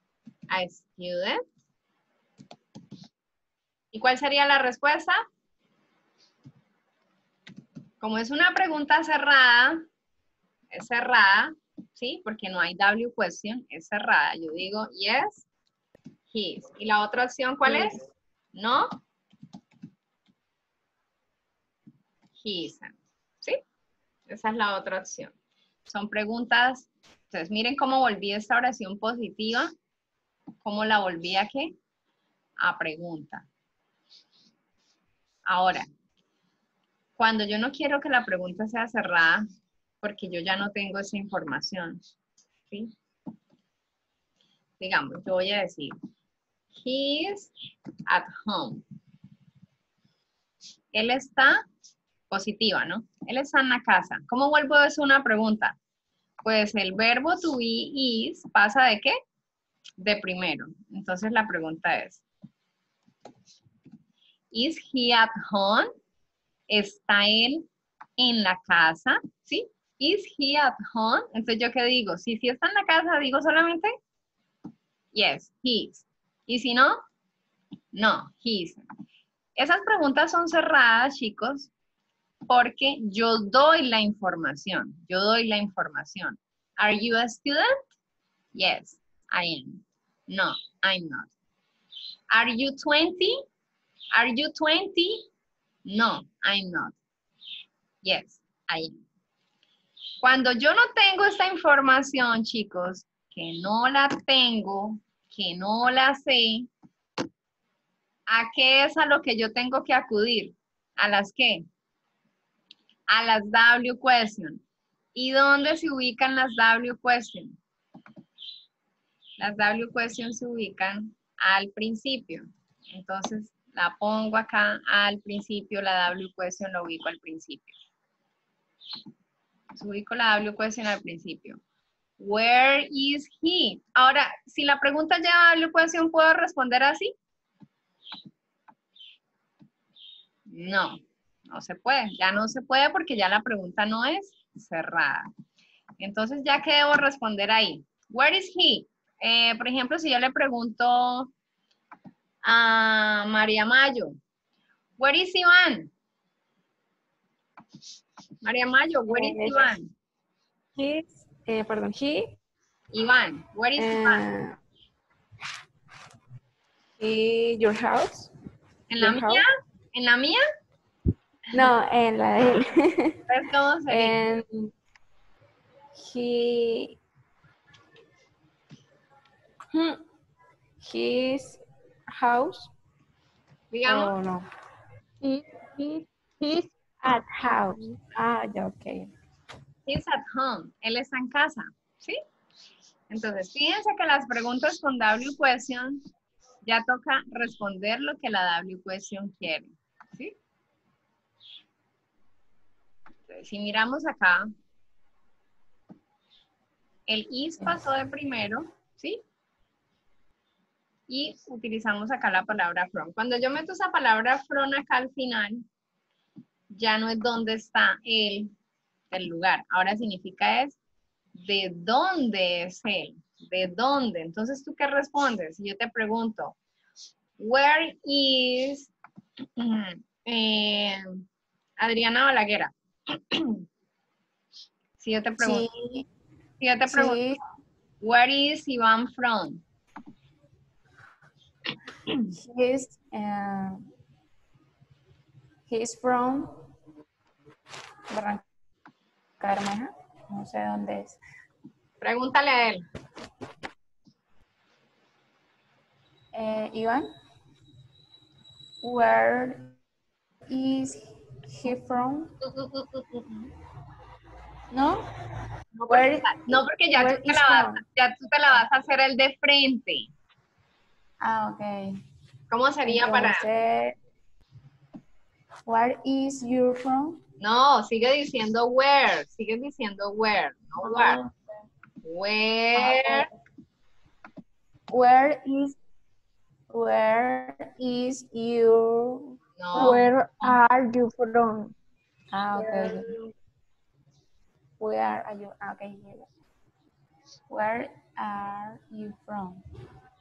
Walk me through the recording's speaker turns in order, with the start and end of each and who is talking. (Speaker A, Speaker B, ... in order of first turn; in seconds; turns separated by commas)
Speaker A: 0.5-1.4, Speaker A: 3.9-5.2, Speaker A: 8.0-9.8, Speaker A: 10.7-15.4, Speaker A: 16.3-18.0, Speaker A: 18.5-19.0, Speaker A: 22.4-23.6, Speaker A: 24.3-25.3, Speaker A: 25.9-29.7, Speaker A: 30.6-31.7, Speaker A: 32.6-33.5, Speaker A: 35.5-35.9, Speaker A: 37.2-39.5, Speaker A: 40.0-42.0, Speaker A: 44.8-45.9, Speaker A: 46.8-47.5, Speaker A: 48.1-48.8, Speaker A: 50.9-51.6, Speaker A: 52.3-55.8, Speaker A: 56.4-59.2, Speaker A: 60.0-62.2, Speaker A: 64.5-65.9, Speaker A: 66.7-67.7, Speaker A: 68.2-73.9, Speaker A: 75.1-77.0, Speaker A: 77.9-78.8, Speaker A: 79.6-81.7, Speaker A: 82.5-87.8, Speaker A: 88.5-91.3, Speaker A: 92.3-93.4, Speaker A: 94.1-95.3, Speaker A: 95.9-97.0, Speaker A: 98.0-99.0, Speaker A: 100.2-106.7, Speaker A: 108.3-111.6, Speaker A: 113.1-114.6, Speaker A: 115.1-117.6, Speaker A: 119.4-127.7, Speaker A: 129.8-131.6, Speaker A: 132.2-137.1, Speaker A: 140.5-145.3, Speaker A: 146.0-151.3, Speaker A: 152.4-154.2, Speaker A: 155.0-155.9, Speaker A: 158.4-159.9, Speaker B: 159.1-159.7, Speaker B: 160.8-162.3, Speaker A: 162.9-164.3, Speaker B: 163.8-164.6, Speaker B: 167.0-168.3, Speaker A: 168.9-170.4, Speaker B: 169.0-169.4, Speaker B: 171.5-173.2, Speaker A: 173.3-174.2, Speaker B: 173.9-174.7, Speaker B: 175.9-177.0, Speaker B: 179.7-180.0, Speaker B: 180.8-182.7, Speaker A: 183.7-184.1, Speaker B: 183.9-184.5, Speaker B: 185.2-189.1, Speaker A: 189.9-192.2, Speaker A: 193.1-196.0, Speaker A: 196.7-200.3, Speaker A: 203.3-204.5, Speaker A: 207.1-209.2, Speaker A: 211.1-215.7, Speaker A: 216.7-218.5, Speaker A: 219.1-220.8, Speaker A: 221.3-226.6, Speaker A: 227.4-228.9, Speaker A: 229.6-231.2, Speaker A: 231.8-233.6, Speaker A: 235.0-235.7, Speaker B: 235.4-236.1, Speaker A: 236.6-237.2, Speaker B: 236.9-237.4, Speaker A: 238.0-239.6, Speaker B: 242.3-243.8, Speaker B: 245.7-246.7, Speaker B: 248.1-248.4, Speaker B: 249.4-251.2, Speaker A: 252.0-252.8, Speaker B: 256.3-257.1, Speaker B: 258.8-259.8, Speaker B: 260.5-262.4, Speaker A: 262.4-263.5, Speaker B: 264.7-265.1, Speaker A: 265.8-270.1, Speaker B: 265.9-267.8, Speaker B: 271.2-272.0, Speaker A: 272.5-273.5, Speaker B: 272.9-274.0, Speaker B: 275.6-277.2, Speaker A: 277.4-281.2, Speaker B: 280.8-281.4, Speaker A: 282.0-283.3, Speaker B: 282.8-283.3, Speaker B: 284.9-285.8, Speaker B: 286.7-290.6, Speaker A: 289.6-290.0, Speaker C: 289.8-291.8, Speaker B: 292.3-293.1, Speaker C: 292.6-293.3, Speaker B: 294.8-296.3, Speaker B: 297.5-299.6